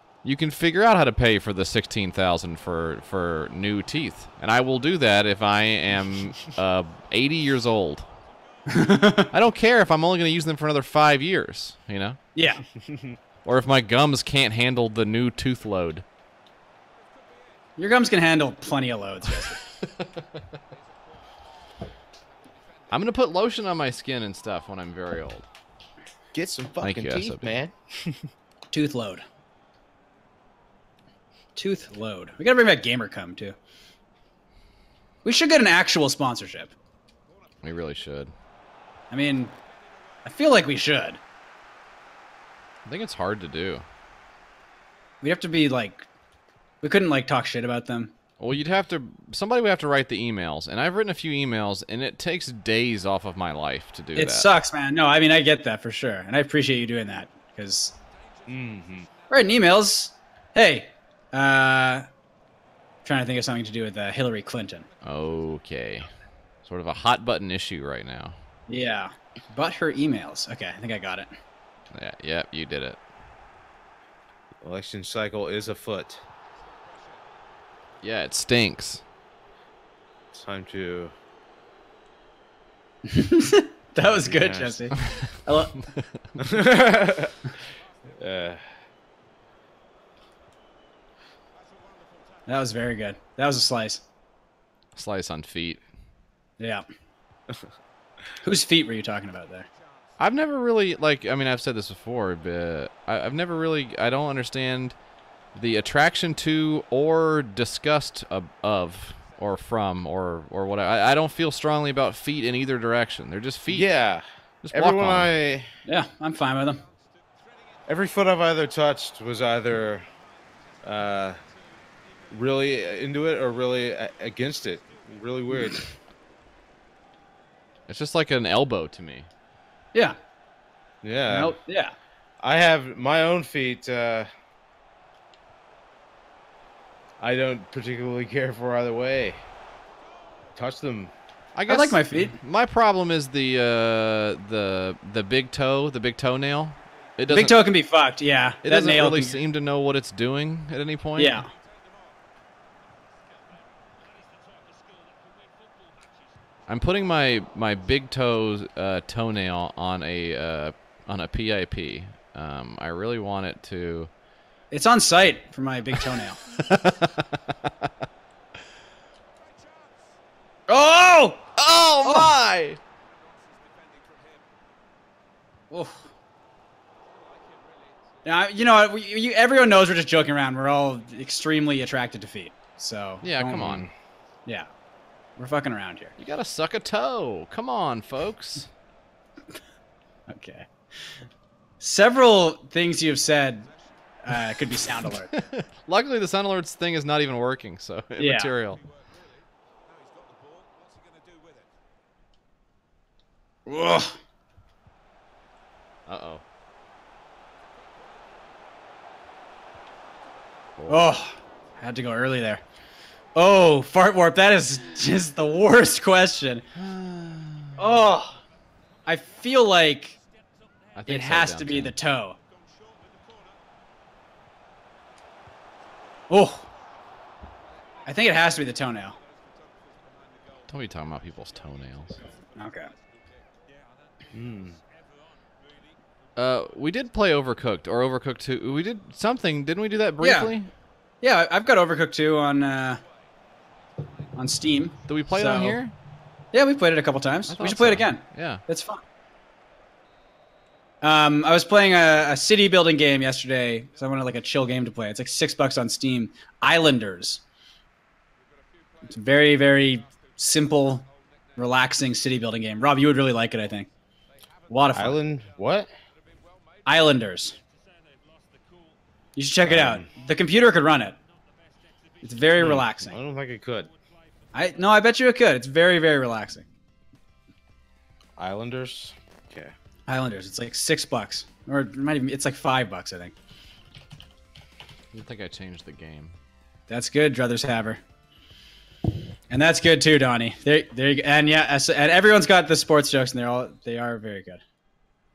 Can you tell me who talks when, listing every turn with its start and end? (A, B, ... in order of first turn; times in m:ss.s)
0:00.2-0:08.1 A
0:08.7-0:09.3 B
0:09.3-0:12.2 A
0:12.4-0:12.6 B
0:12.8-0:13.2 C
0:13.4-0:16.0 A
0:17.8-0:19.6 B
0:22.9-0:25.5 A
0:26.3-0:28.3 C
0:26.8-0:27.5 A
0:28.7-0:29.2 B
0:31.6-0:33.6 B
0:35.2-0:36.7 B
0:37.6-0:38.3 A
0:39.1-0:39.6 B
0:40.2-0:41.2 B
0:42.9-0:43.8 A
0:45.2-0:46.1 B
0:46.8-0:48.1 B
0:48.4-0:54.5 A
0:54.2-0:57.9 B
0:58.5-0:59.1 C
0:59.3-1:02.1 B
1:03.0-1:04.9 B
1:05.0-1:06.1 A
1:06.6-1:08.4 A
1:08.7-1:11.3 B
1:11.9-1:13.0 A
1:14.6-1:16.2 C
1:18.0-1:19.0 A
1:20.3-1:21.2 C
1:23.1-1:25.8 B
1:24.0-1:24.9 C
1:25.0-1:25.4 A
1:26.4-1:27.4 C
1:28.1-1:28.8 C
1:32.5-1:34.0 B
1:35.0-1:35.8 A
1:36.6-1:36.8 B
1:38.4-1:39.7 B
1:40.2-1:45.0 A
1:45.6-1:53.9 A
1:53.7-1:55.8 C
1:54.6-1:55.3 A
1:55.9-1:56.8 B
1:57.9-2:00.1 C
2:00.8-2:01.4 C
2:02.3-2:05.9 C
2:07.9-2:09.3 A
2:11.0-2:11.6 C
2:11.3-2:11.9 B
2:12.4-2:14.3 C
2:17.2-2:19.4 C
2:20.6-2:21.1 C
2:21.6-2:27.6 A
2:21.7-2:22.4 B
2:27.3-2:29.4 B
2:28.6-2:31.4 A
2:31.2-2:31.5 B
2:36.7-2:44.1 A
2:44.7-2:46.4 B
2:46.5-2:47.3 A
2:50.7-2:51.5 B
2:51.6-2:52.8 A
2:52.0-2:52.3 B
2:55.7-2:56.0 B
2:58.2-3:03.9 B
3:03.2-3:03.9 A
3:03.6-3:03.9 C
3:05.4-3:06.2 B
3:06.2-3:08.7 A
3:10.3-3:10.7 B
3:11.8-3:13.7 B
3:14.2-3:15.3 B
3:15.3-3:18.8 A
3:18.2-3:18.5 B
3:23.7-3:24.2 B
3:26.1-3:26.4 A
3:30.8-3:31.1 A
3:30.9-3:32.6 B
3:33.4-3:36.7 B
3:36.8-3:37.8 A
3:37.8-3:38.4 B
3:39.1-3:40.2 B
3:41.0-3:41.9 A
3:41.1-3:42.4 B
3:46.3-3:46.6 B
3:48.1-3:49.2 B
3:50.7-3:52.2 A
3:52.6-3:52.9 B
3:54.3-3:54.8 C
3:56.4-4:00.7 A
4:00.2-4:00.5 B
4:01.2-4:03.0 B
4:04.3-4:05.8 B
4:05.1-4:05.9 A
4:06.5-4:09.0 B
4:07.5-4:08.6 A
4:11.0-4:17.4 B
4:19.1-4:23.9 B
4:24.7-4:25.2 B
4:24.9-4:25.9 C
4:26.8-4:27.6 B
4:29.4-4:31.2 B
4:29.7-4:30.1 C
4:32.2-4:33.2 B
4:32.6-4:33.9 C
4:34.5-4:36.6 B
4:38.4-4:39.7 C
4:40.1-4:43.3 B
4:45.1-4:46.3 A
4:46.9-4:48.0 B
4:49.5-4:54.6 B